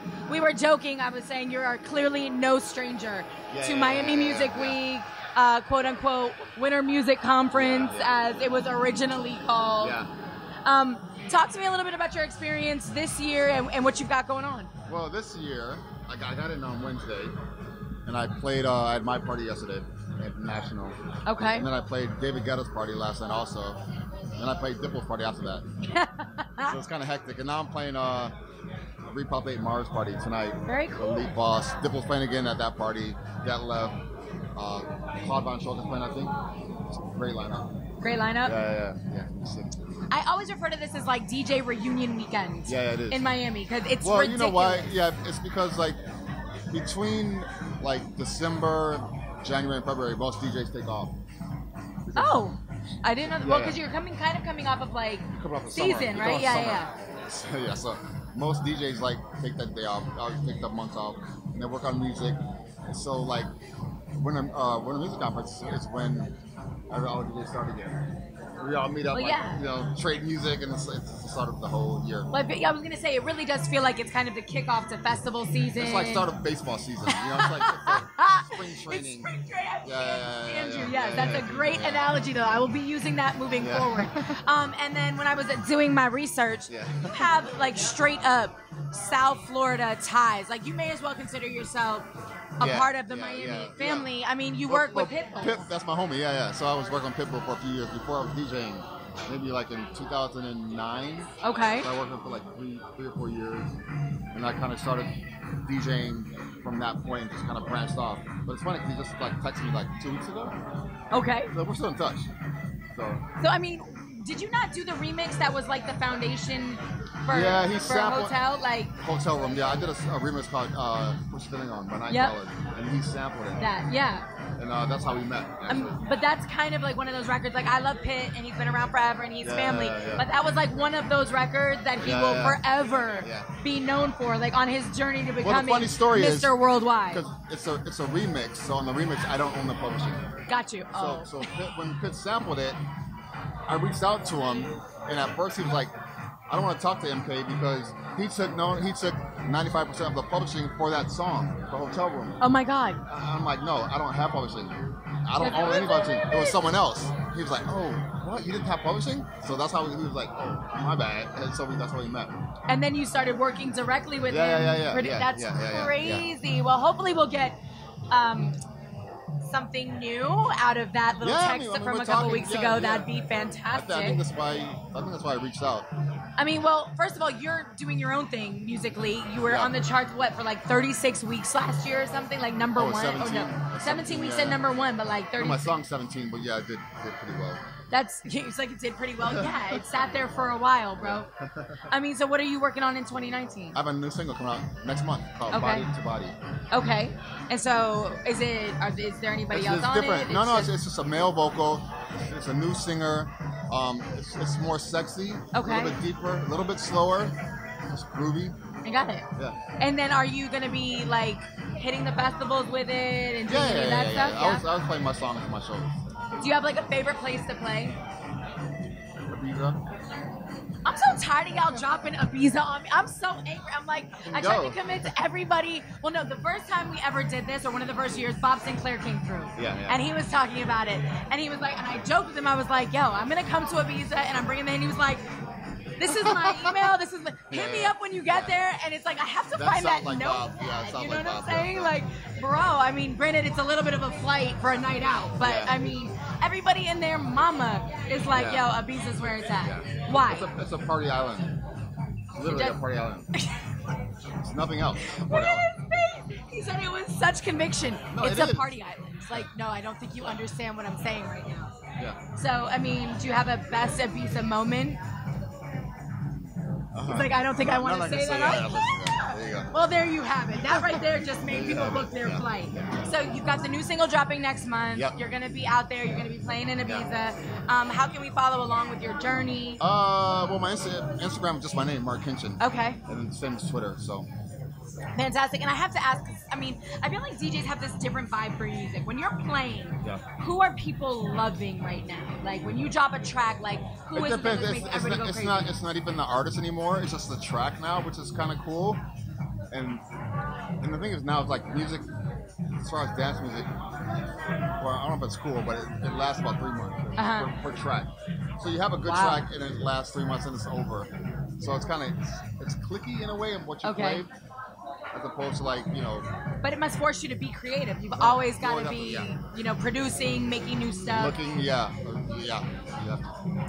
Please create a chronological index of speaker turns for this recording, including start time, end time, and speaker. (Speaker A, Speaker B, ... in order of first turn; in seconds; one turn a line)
Speaker A: 0.3-10.0
Speaker B: 3.5-4.8
Speaker B: 7.5-8.4
Speaker B: 9.8-10.1
Speaker A: 10.7-14.7
Speaker B: 14.9-17.4
Speaker B: 18.1-23.8
Speaker A: 21.3-21.7
Speaker B: 24.4-25.6
Speaker A: 25.9-26.7
Speaker B: 26.6-28.3
Speaker B: 29.1-34.0
Speaker A: 30.7-31.2
Speaker B: 34.6-36.3
Speaker B: 36.9-37.7
Speaker A: 38.0-38.5
Speaker B: 38.4-39.9
Speaker A: 40.1-44.9
Speaker B: 42.7-43.2
Speaker B: 44.0-46.0
Speaker B: 46.7-51.1
Speaker B: 52.0-52.5
Speaker A: 52.2-56.9
Speaker B: 53.4-53.8
Speaker B: 55.3-63.5
Speaker B: 64.2-66.3
Speaker B: 66.9-68.0
Speaker B: 68.6-72.3
Speaker A: 69.1-69.6
Speaker A: 72.3-76.3
Speaker B: 75.8-79.3
Speaker A: 77.1-92.1
Speaker B: 79.8-82.1
Speaker B: 83.6-84.4
Speaker B: 86.7-87.3
Speaker A: 92.6-95.7
Speaker B: 92.6-94.1
Speaker B: 94.7-103.7
Speaker A: 101.4-101.9
Speaker B: 104.3-105.1
Speaker B: 105.7-110.5
Speaker A: 111.1-111.5
Speaker B: 111.5-112.3
Speaker B: 113.0-113.2
Speaker A: 113.4-118.9
Speaker B: 117.3-118.4
Speaker B: 119.0-123.7
Speaker A: 122.1-122.4
Speaker A: 123.6-124.2
Speaker B: 124.6-126.0
Speaker A: 125.7-137.2
Speaker B: 129.4-130.3
Speaker B: 132.0-133.5
Speaker B: 135.4-136.5
Speaker B: 137.1-140.2
Speaker A: 140.5-141.5
Speaker B: 140.9-142.8
Speaker B: 143.7-145.9
Speaker B: 146.5-152.4
Speaker A: 152.4-153.0
Speaker B: 153.1-162.3
Speaker A: 155.4-156.5
Speaker A: 162.7-167.6
Speaker B: 164.3-166.3
Speaker A: 168.1-168.6
Speaker A: 169.4-174.2
Speaker B: 171.2-175.9
Speaker A: 176.4-185.7
Speaker B: 179.4-179.8
Speaker B: 182.8-184.6
Speaker B: 185.4-187.6
Speaker A: 187.9-191.3
Speaker B: 189.2-190.3
Speaker B: 191.0-191.9
Speaker A: 191.9-193.8
Speaker B: 193.8-196.3
Speaker A: 195.5-195.9
Speaker A: 196.7-200.7
Speaker B: 199.5-207.3
Speaker A: 205.5-206.0
Speaker B: 207.9-208.6
Speaker A: 208.8-209.2
Speaker A: 209.8-214.6
Speaker B: 213.5-215.9
Speaker A: 216.4-218.0
Speaker B: 219.3-219.8
Speaker A: 220.8-235.2
Speaker B: 224.2-225.1
Speaker B: 229.6-230.0
Speaker A: 236.0-250.5
Speaker B: 236.1-236.9
Speaker B: 237.5-238.5
Speaker B: 239.6-242.0
Speaker B: 245.4-245.7
Speaker B: 248.3-248.7
Speaker B: 249.6-251.5
Speaker B: 252.3-253.3
Speaker A: 252.4-252.8
Speaker B: 254.4-255.7
Speaker A: 255.0-261.8
Speaker B: 258.1-258.7
Speaker A: 262.4-265.0
Speaker B: 266.4-269.7
Speaker A: 267.1-269.0
Speaker A: 269.7-279.8
Speaker B: 270.9-273.0
Speaker B: 279.8-284.3
Speaker A: 282.6-283.0
Speaker A: 285.2-295.8
Speaker B: 294.1-299.0
Speaker B: 299.7-300.0
Speaker B: 300.8-302.1
Speaker B: 302.8-303.7
Speaker B: 304.8-311.1
Speaker A: 307.2-307.5
Speaker A: 309.1-309.4
Speaker B: 311.6-314.3
Speaker A: 313.8-314.2
Speaker B: 315.1-316.3
Speaker A: 316.6-321.4
Speaker B: 318.2-319.3
Speaker B: 321.1-323.4